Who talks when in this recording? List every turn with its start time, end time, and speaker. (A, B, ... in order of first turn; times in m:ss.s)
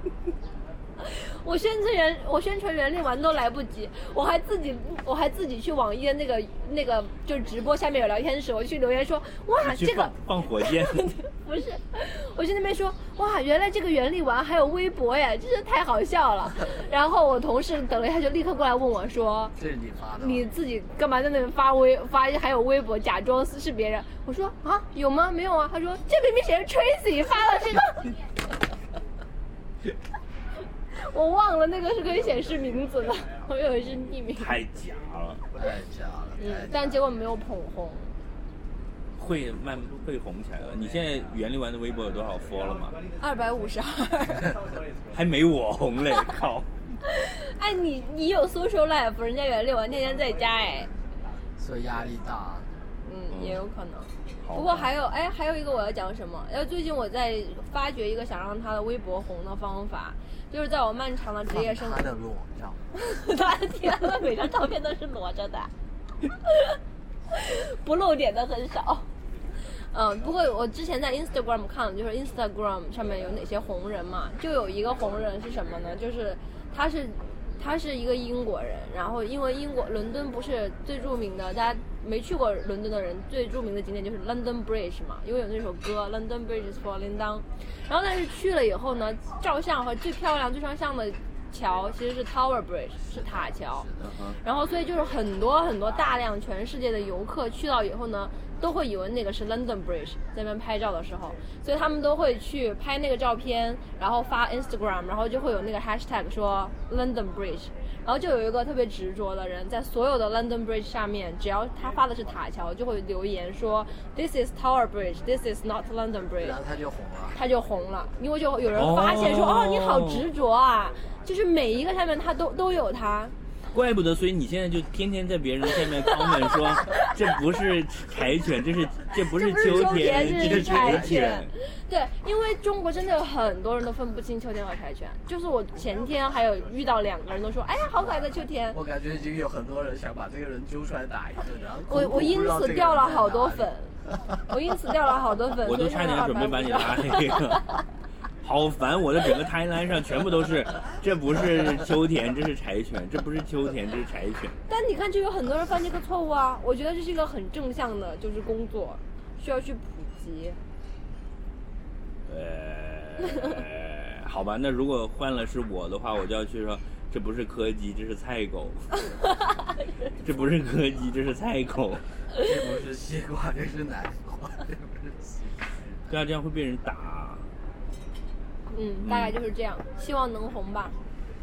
0:01.0-0:19.5 A
0:09.6-0:11.1 B
0:19.6-0:20.5 C
0:20.2-0:28.1 A
0:30.9-0:34.6 A
0:34.4-0:35.4 B
0:35.6-0:37.0 C
0:36.4-0:38.1 A
0:39.2-0:43.0 B
0:43.2-0:44.5 A
0:45.1-0:46.7 B
0:47.1-0:50.9 A
0:51.6-0:52.7 C
0:53.0-1:02.0 A
0:53.3-0:53.6 B
0:54.4-0:54.9 B
1:01.5-1:02.8 C
1:03.0-1:05.7 A
1:06.4-1:06.8 A
1:07.3-1:09.1 A
1:09.9-1:33.9 A
1:33.1-1:34.1 C
1:34.0-1:34.4 B
1:34.4-1:56.6 A
1:56.4-1:57.4 C
1:57.3-2:03.3 A
1:58.7-2:00.3 B
2:03.7-2:11.5 B
2:09.2-2:18.8 A
2:10.3-2:11.4 C
2:18.0-2:23.7 C
2:21.9-2:24.0 A
2:24.5-2:27.6 A
2:25.6-2:27.8 B
2:28.4-2:34.6 B
2:34.7-2:40.6 A
2:42.3-2:49.0 B
2:50.2-2:52.0 B
2:52.4-2:56.0 C
2:56.1-2:57.5 B
2:58.7-3:01.0 A
2:59.0-2:59.4 B